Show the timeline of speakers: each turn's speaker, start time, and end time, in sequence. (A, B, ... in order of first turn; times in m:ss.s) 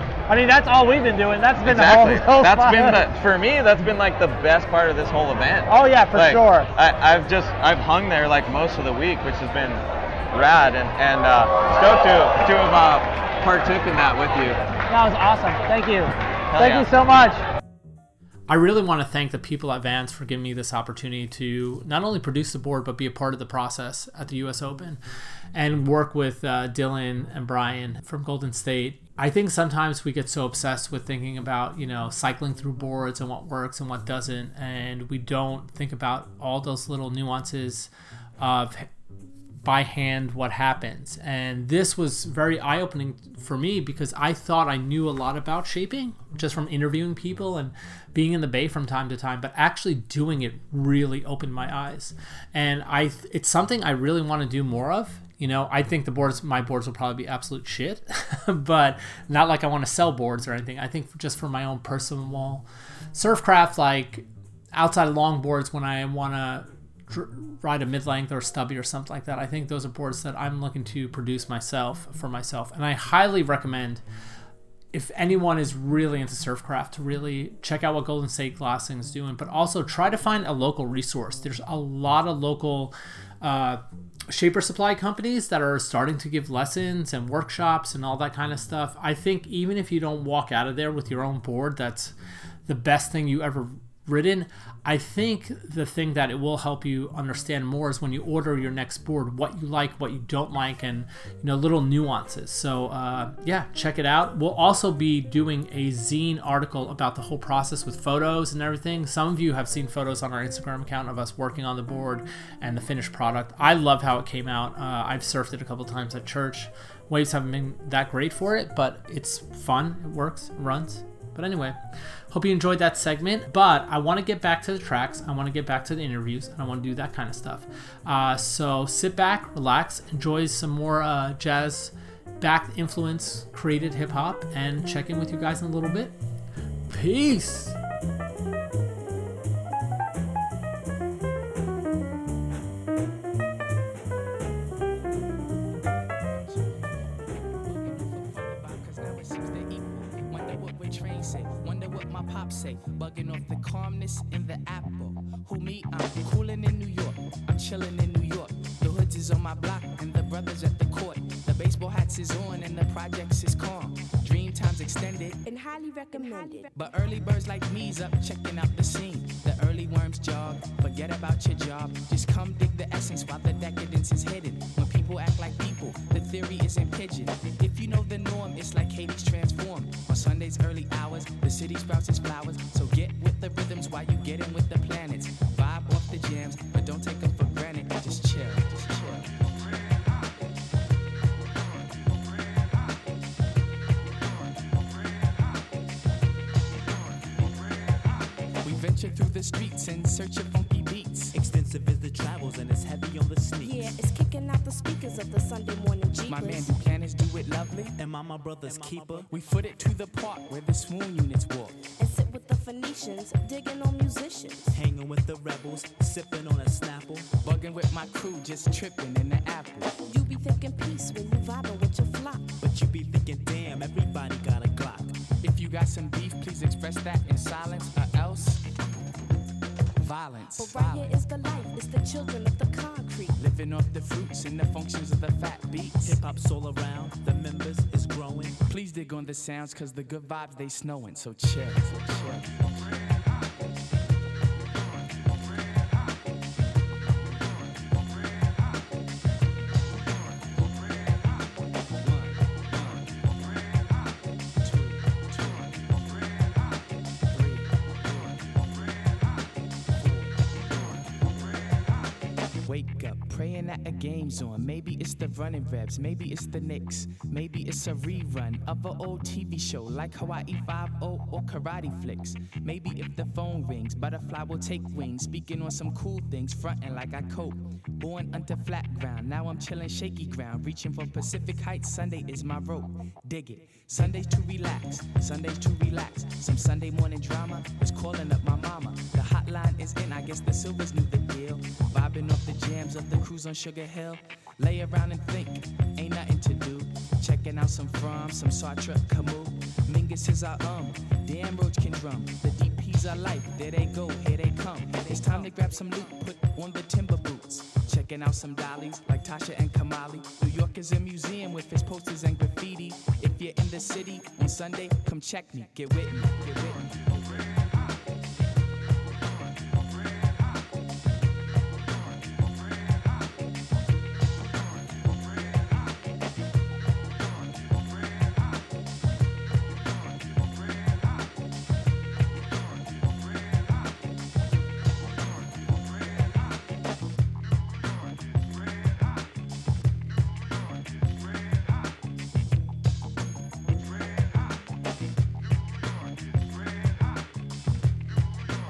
0:00.3-0:03.0 A
0:01.6-0:14.6 B
0:05.7-0:06.7 A
0:14.9-0:17.4 A
0:16.5-0:16.9 B
0:18.5-0:25.0 C
0:25.5-0:38.9 C
0:39.6-1:14.0 C
1:14.9-1:32.1 C
1:32.6-2:01.8 C
2:02.3-2:16.2 C
2:16.9-2:17.8 C
2:26.4-2:26.9 D
2:27.6-2:45.4 D
2:45.4-2:46.7 E
2:46.7-3:09.5 D
3:18.6-3:21.3 D
3:21.3-3:24.0 F
3:23.6-3:26.8 E
3:26.3-3:28.0 D
3:28.0-3:29.3 F
3:28.6-3:31.8 D
3:32.0-3:34.8 E
3:34.7-3:37.3 F
3:37.4-3:40.0 D
3:40.0-3:42.5 E
3:42.6-3:45.1 F
3:45.4-3:48.6 D
3:50.0-3:51.1 D
3:50.5-3:53.4 E
3:53.4-3:56.2 D
3:56.0-3:58.6 F
3:58.6-4:02.7 D
4:22.6-5:17.2 D